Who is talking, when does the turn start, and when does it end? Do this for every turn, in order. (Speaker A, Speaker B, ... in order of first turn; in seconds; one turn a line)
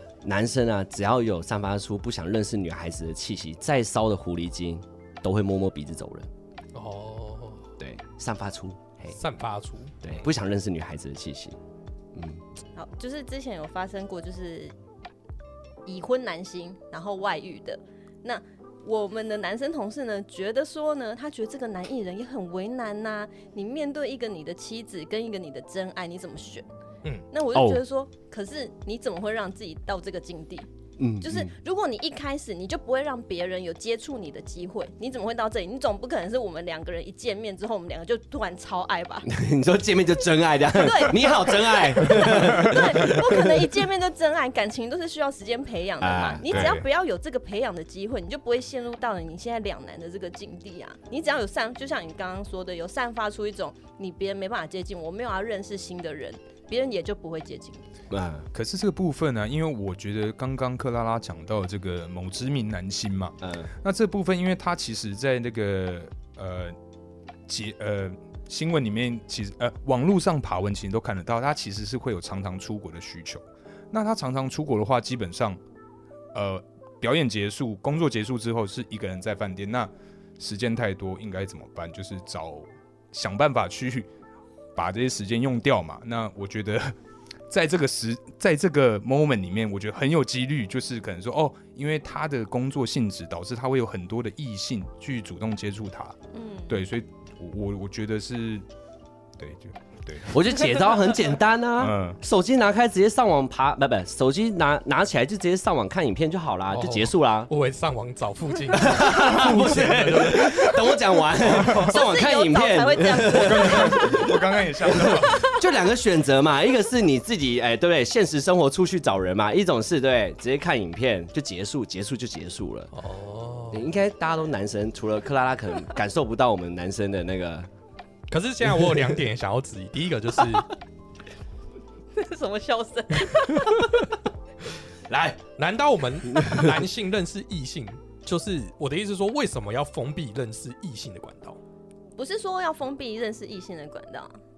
Speaker A: 0.2-6.3
Speaker B: 6.7-7.7
Speaker A: 7.8-9.2
Speaker B: 9.1-10.1
Speaker A: 10.0-11.6
Speaker A: 12.1-12.4
Speaker C: 12.8-14.7
Speaker C: 15.8-26.6
Speaker C: 27.3-30.7
Speaker A: 27.5-27.8
Speaker A: 31.0-31.5
Speaker C: 31.2-39.3
Speaker A: 39.2-43.8
Speaker C: 40.7-57.9
Speaker A: 46.0-46.8
Speaker D: 46.5-46.8
Speaker A: 58.1-58.5
Speaker D: 58.5-66.8
Speaker A: 63.4-63.7
Speaker D: 67.5-75.6
Speaker D: 76.3-84.1
Speaker D: 84.8-87.0
Speaker D: 87.5-96.2
Speaker C: 96.3-96.8
Speaker D: 96.7-98.6
Speaker D: 99.4-100.3
Speaker A: 100.3-107.5
Speaker D: 101.8-102.2
Speaker B: 106.7-110.8
Speaker A: 108.7-122.9
Speaker D: 109.3-109.8
Speaker D: 111.5-111.9
Speaker C: 111.5-115.6
Speaker D: 113.2-115.5
Speaker B: 122.9-123.9
Speaker A: 123.7-127.7
Speaker B: 128.3-130.7
Speaker C: 132.1-134.1
Speaker A: 135.1-135.4
Speaker B: 135.6-141.6
Speaker A: 136.3-136.7
Speaker C: 142.2-144.3